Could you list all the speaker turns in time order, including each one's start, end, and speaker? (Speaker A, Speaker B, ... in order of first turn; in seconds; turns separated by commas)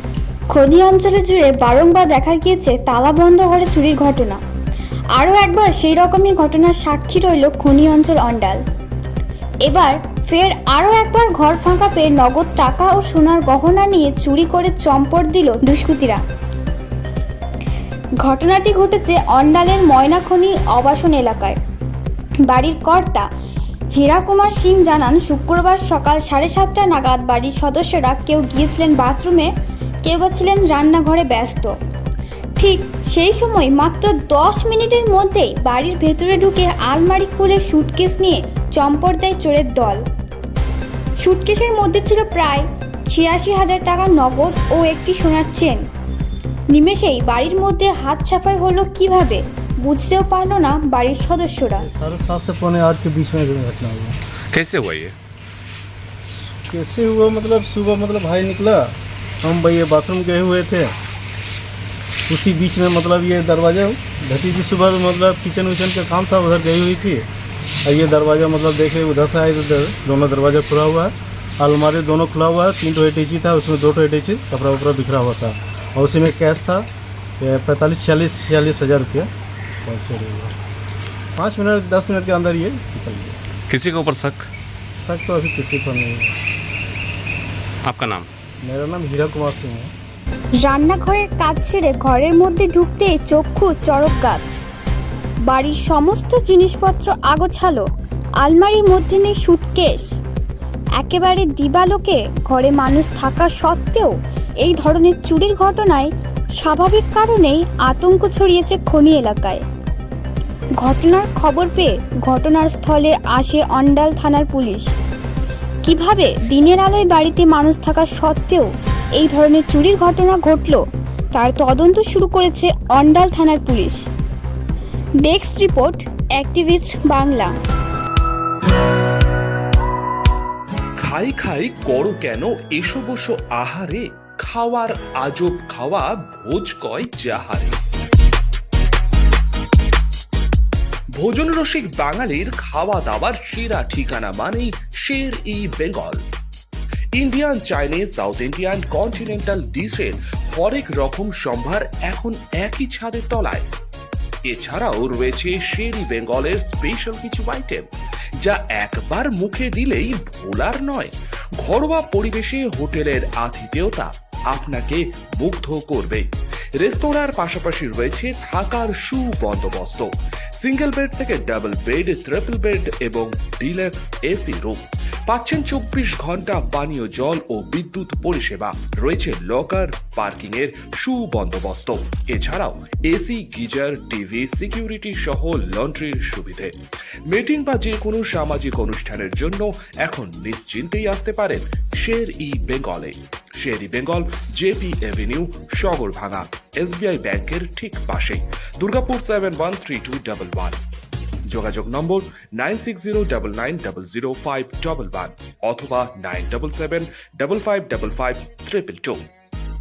Speaker A: 0.5-4.4, Speaker A: 5.2-8.6, Speaker A: 9.6-16.2, Speaker A: 18.2-21.6, Speaker A: 22.4-23.3, Speaker A: 23.9-29.5, Speaker A: 30.0-31.8, Speaker A: 32.6-40.0, Speaker A: 41.2-45.8, Speaker A: 46.7-51.9, Speaker B: 51.8-54.1, Speaker C: 54.5-55.1, Speaker B: 56.2-60.9, Speaker B: 62.3-67.3, Speaker B: 67.8-76.9, Speaker B: 77.4-79.3, Speaker B: 79.8-80.5, Speaker B: 81.4-83.4, Speaker C: 83.7-84.5, Speaker B: 85.0-86.3, Speaker C: 87.8-88.3, Speaker B: 88.6-89.9, Speaker A: 90.6-94.6, Speaker A: 95.5-97.8, Speaker A: 98.4-100.1, Speaker A: 101.0-109.6, Speaker A: 110.8-114.9, Speaker A: 115.8-124.0, Speaker A: 125.2-127.5, Speaker D: 131.0-137.8, Speaker D: 141.2-146.2, Speaker D: 147.2-153.7, Speaker D: 154.5-157.9, Speaker D: 158.4-166.3, Speaker D: 166.8-186.7, Speaker D: 187.3-200.8, Speaker D: 201.5-209.2